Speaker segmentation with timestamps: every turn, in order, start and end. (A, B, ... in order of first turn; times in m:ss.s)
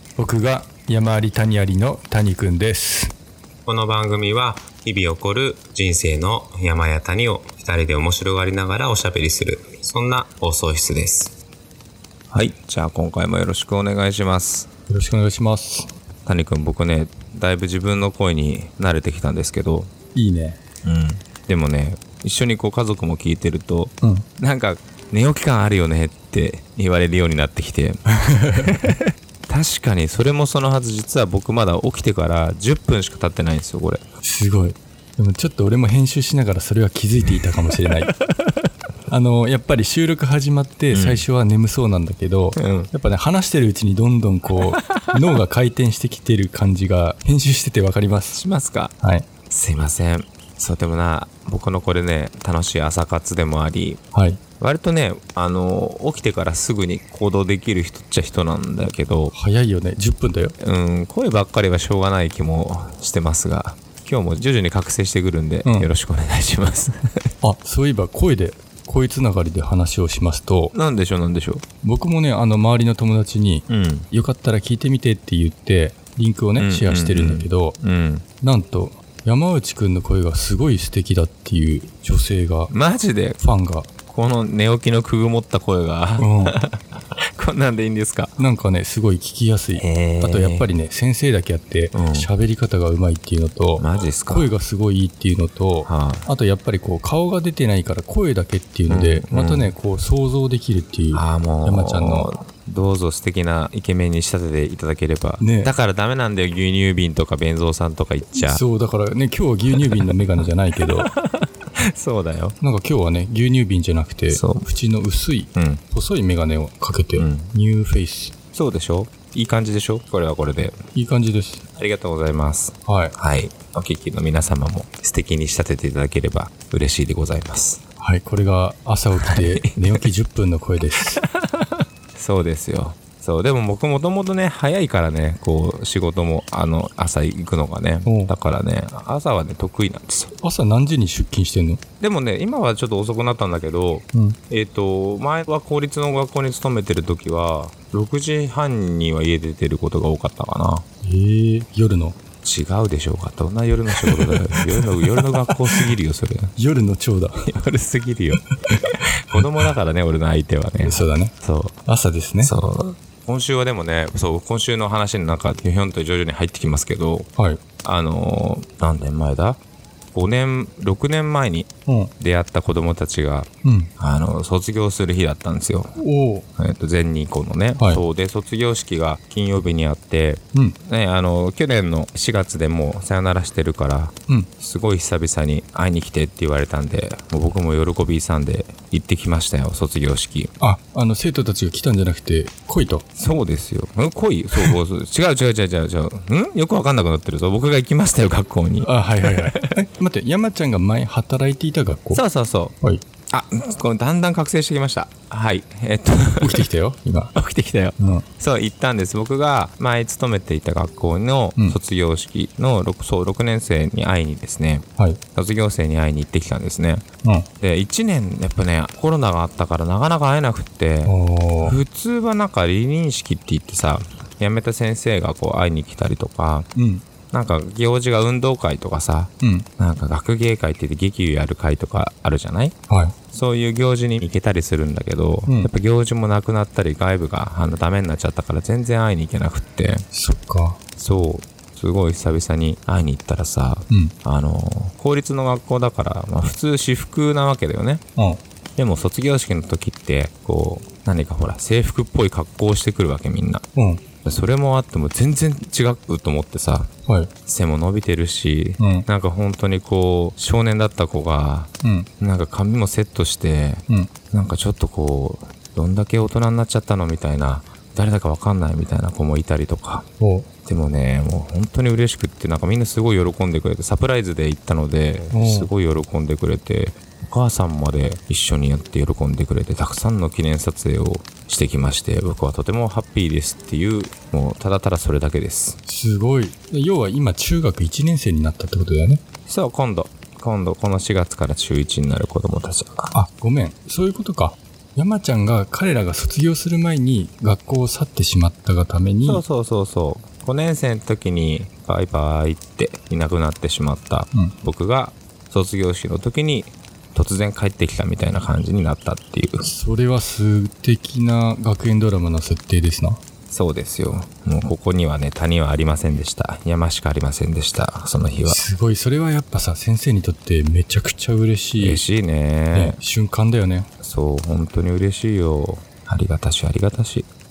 0:00.2-0:03.1 A
0:03.6-0:11.4 B
0:12.3-0:14.7 B
0:14.9-0:15.9 A
0:16.3-0:19.9 B
0:20.2-0:20.6 A
0:20.8-0:28.0 B
0:28.1-0:28.8 A
0:28.5-0:34.0 B
0:34.2-0:38.1 A
0:38.1-0:38.5 B
0:39.1-0:48.4 A
0:40.9-0:41.2 B
0:42.6-0:42.9 B
0:44.6-0:45.1 B
0:48.3-0:48.9 B
0:49.0-0:49.3 A
0:49.5-0:54.0 B
0:54.1-0:54.4 A
0:54.6-0:59.3 B
0:59.3-1:00.6 A
1:00.6-1:07.3 B
1:05.6-1:05.9 A
1:07.4-1:10.7 A
1:10.7-1:11.6 B
1:11.8-1:17.8 A
1:13.7-1:14.1 B
1:16.6-1:18.2 B
1:18.4-1:22.7 A
1:22.7-1:23.4 B
1:23.4-1:23.9 A
1:24.1-1:28.4 B
1:26.2-1:26.6 A
1:28.4-1:42.3 A
1:29.8-1:30.7 B
1:31.9-1:32.3 B
1:33.8-1:34.5 B
1:35.8-1:36.3 B
1:38.9-1:39.7 B
1:41.1-1:48.6 B
1:45.4-1:45.7 A
1:48.3-1:51.1 A
1:49.8-1:50.4 B
1:51.0-1:52.6 B
1:52.6-1:58.3 A
1:54.3-1:54.7 B
1:55.6-1:55.8 B
1:57.2-1:57.5 B
1:58.5-2:00.8 B
2:00.9-2:01.6 A
2:01.8-2:07.8 B
2:02.8-2:03.1 A
2:08.0-2:11.2 A
2:09.2-2:10.0 B
2:11.2-2:20.3 B
2:18.0-2:18.3 A
2:20.4-2:21.8 A
2:22.0-2:30.8 B
2:24.1-2:24.4 A
2:31.0-2:32.2 A
2:32.4-2:36.5 B
2:33.9-2:35.9 A
2:36.6-2:37.4 A
2:37.4-2:38.5 B
2:38.7-2:39.4 A
2:39.2-2:41.8 B
2:40.8-2:41.3 A
2:41.8-2:42.5 A
2:42.4-2:47.3 B
2:47.8-2:49.6 B
2:50.1-2:51.7 B
2:51.9-2:52.1 A
2:52.2-2:56.0 B
2:53.6-2:53.9 A
2:56.0-2:56.5 A
2:56.6-3:10.5 B
2:57.8-2:58.0 A
3:00.5-3:00.8 A
3:10.6-3:13.1 A
3:13.2-3:19.6 B
3:18.8-3:22.2 A
3:22.1-3:22.8 B
3:23.3-3:26.6 B
3:26.4-3:27.3 A
3:27.3-3:37.0 B
3:28.0-3:28.2 A
3:37.6-3:46.7 B
3:41.0-3:41.8 A
3:46.7-3:47.0 A
3:47.3-3:52.7 B
3:49.4-3:49.7 A
3:52.9-3:53.1 A
3:53.3-4:00.0 B
4:00.1-4:00.8 A
4:01.0-4:08.0 B
4:03.9-4:04.2 A
4:08.2-4:08.4 A
4:08.8-4:13.6 B
4:13.7-4:14.0 A
4:14.2-4:16.9 B
4:17.1-4:17.3 A
4:17.5-4:30.0 B
4:18.8-4:19.1 A
4:21.8-4:22.1 A
4:30.2-4:30.5 A
4:30.7-4:45.8 B
4:35.3-4:35.7 A
4:45.9-4:49.2 A
4:49.5-4:53.1 B
4:53.1-4:59.4 A
4:59.2-5:09.7 B
5:09.6-5:13.2 A
5:13.5-5:18.6 B
5:18.5-5:22.0 A
5:21.8-5:23.0 B
5:22.7-5:23.9 A
5:24.0-5:27.3 B